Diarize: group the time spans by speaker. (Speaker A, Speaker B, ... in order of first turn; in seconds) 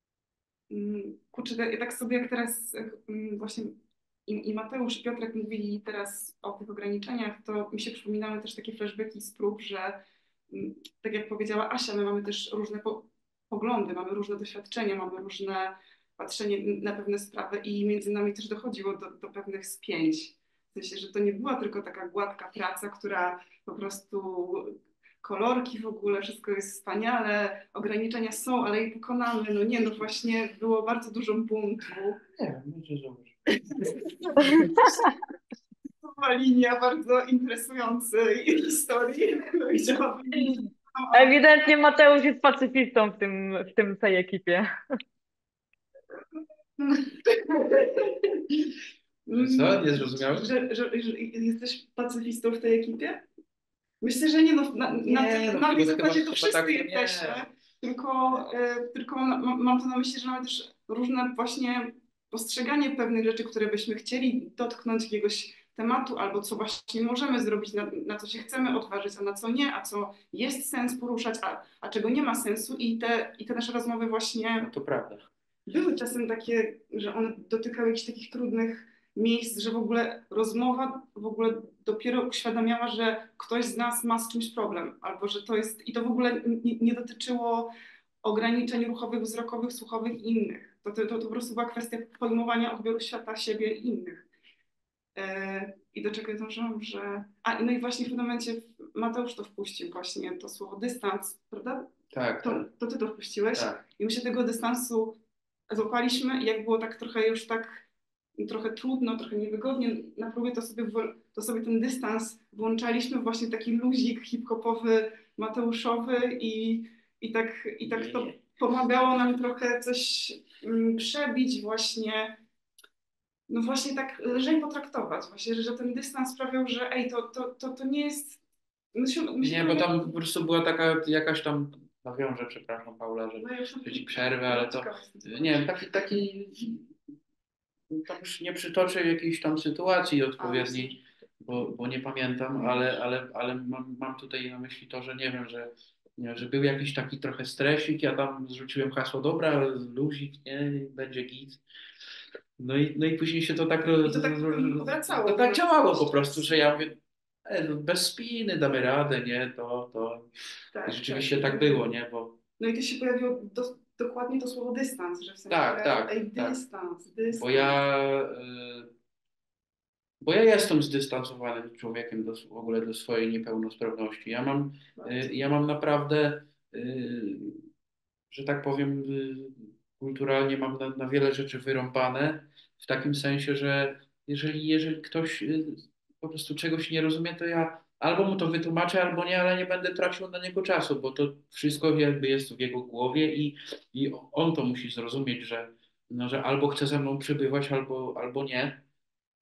Speaker A: 0.7-32.2, 33.8-34.6, 36.0-41.4, 46.8-48.4, 49.3-53.2, 54.0-74.7, 75.7-87.7, 88.2-94.3, 95.2-107.9, 108.4-122.4, 123.5-128.4, 128.9-130.1, 133.4-135.7, 140.4-140.9, 142.6-143.0, 154.0-156.8, 160.7-161.8, 162.6-167.8, 175.0-175.3
Speaker B: 32.3-34.9, 49.3-50.5, 55.0-57.4, 74.6-75.3, 102.1-102.7, 103.5-103.8, 117.8-118.3, 129.4-136.9, 137.9-151.6, 152.6-160.3, 160.8-162.4, 165.5-166.6, 167.3-168.9, 170.2-177.7, 178.3-198.8
Speaker C: 34.5-35.1, 41.1-44.7